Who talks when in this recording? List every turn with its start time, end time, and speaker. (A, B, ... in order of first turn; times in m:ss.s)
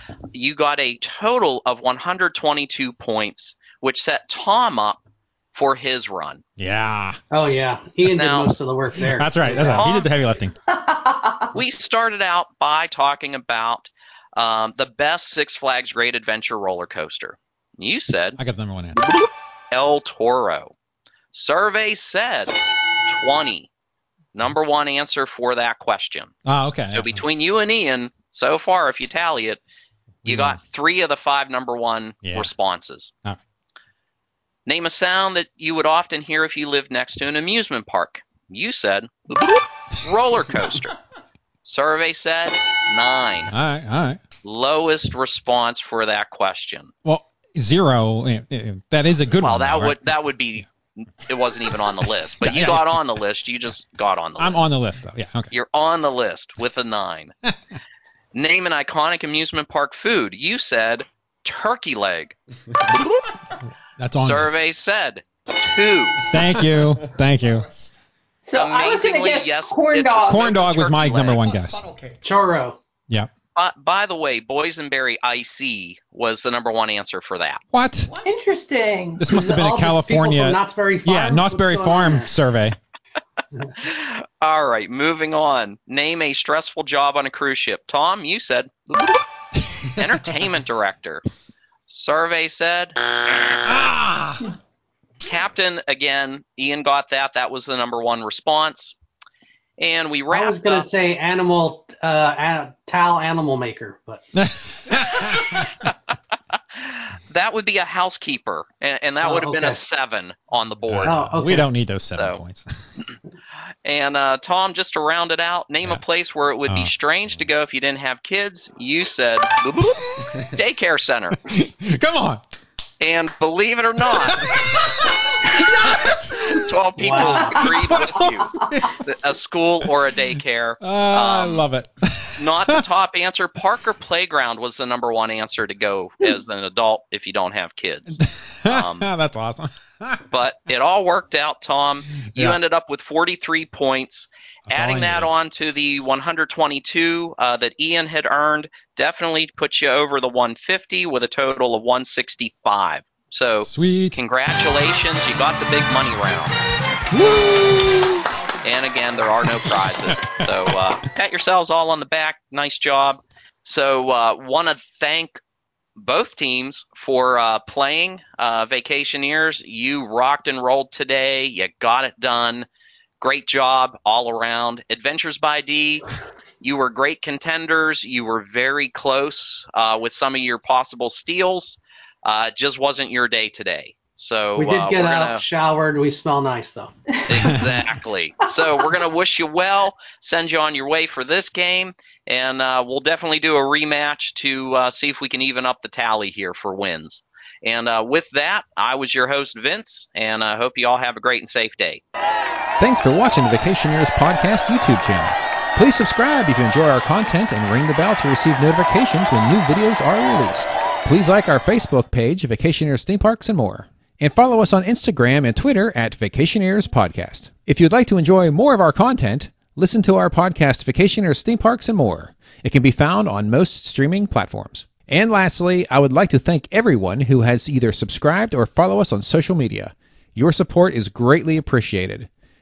0:00.3-0:05.0 A
0:05.5-0:06.4 A
0:06.6-0:07.2 B
0:07.3-0:09.9 C
0:08.1-0:08.6 A
0:09.0-0:10.6 B
0:09.6-0:10.0 A
0:11.5-0:18.4 A
0:18.4-0:19.1 B
0:19.7-0:20.7 A
0:21.3-0:22.6 A
0:23.1-0:23.7 A
0:24.3-0:26.3 A
0:26.5-0:27.2 B
0:26.9-0:29.6 A
0:30.2-0:30.6 B
0:30.2-0:33.1 A
0:32.2-0:32.5 B
0:34.7-0:41.0 A
0:41.6-0:43.5 A
0:43.5-0:44.2 B
0:44.4-0:46.9 A
0:47.0-0:50.0 B
0:49.4-0:54.7 A
0:52.4-0:52.9 B
0:54.4-0:55.5 B
0:55.5-0:57.3 A
0:58.3-1:02.4 A
1:02.9-1:03.2 A
1:04.0-1:04.5 B
1:04.2-1:06.2 A
1:06.3-1:07.6 B
1:07.2-1:08.0 D
1:08.4-1:10.5 E
1:08.6-1:11.4 A
1:10.3-1:11.8 B
1:11.2-1:12.2 D
1:12.2-1:12.8 C
1:13.6-1:17.6 A
1:17.7-1:18.1 B
1:18.0-1:18.4 D
1:18.2-1:19.2 E
1:19.2-1:22.8 B
1:19.3-1:22.3 C
1:23.8-1:29.2 A
1:29.9-1:31.2 A
1:31.9-1:33.6 A
1:33.6-1:34.4 B
1:35.2-1:39.0 A
1:39.8-1:40.9 A
1:40.3-1:44.2 C
1:44.4-1:45.7 B
1:46.8-1:51.3 A
1:49.2-1:49.8 C
1:50.9-1:52.6 B
1:51.0-1:51.7 C
1:52.1-1:52.4 A
1:53.8-2:01.4 A
2:01.5-2:02.4 B
2:03.0-2:04.7 A
2:06.4-2:11.6 A
2:07.0-2:07.9 C
2:07.6-2:09.0 B
2:10.8-2:12.8 B
2:12.4-2:19.1 A
2:18.2-2:20.2 B
2:20.3-2:36.6 A
2:22.3-2:22.6 B
2:24.7-2:25.3 B
2:33.6-2:34.2 B
2:37.1-2:38.2 B
2:38.3-2:39.7 D
2:38.6-2:45.4 A
2:46.0-2:52.7 A
2:53.2-2:56.1 A
2:56.6-3:05.4 A
3:04.6-3:06.9 C
3:07.3-3:22.0 A
3:22.8-3:52.3 B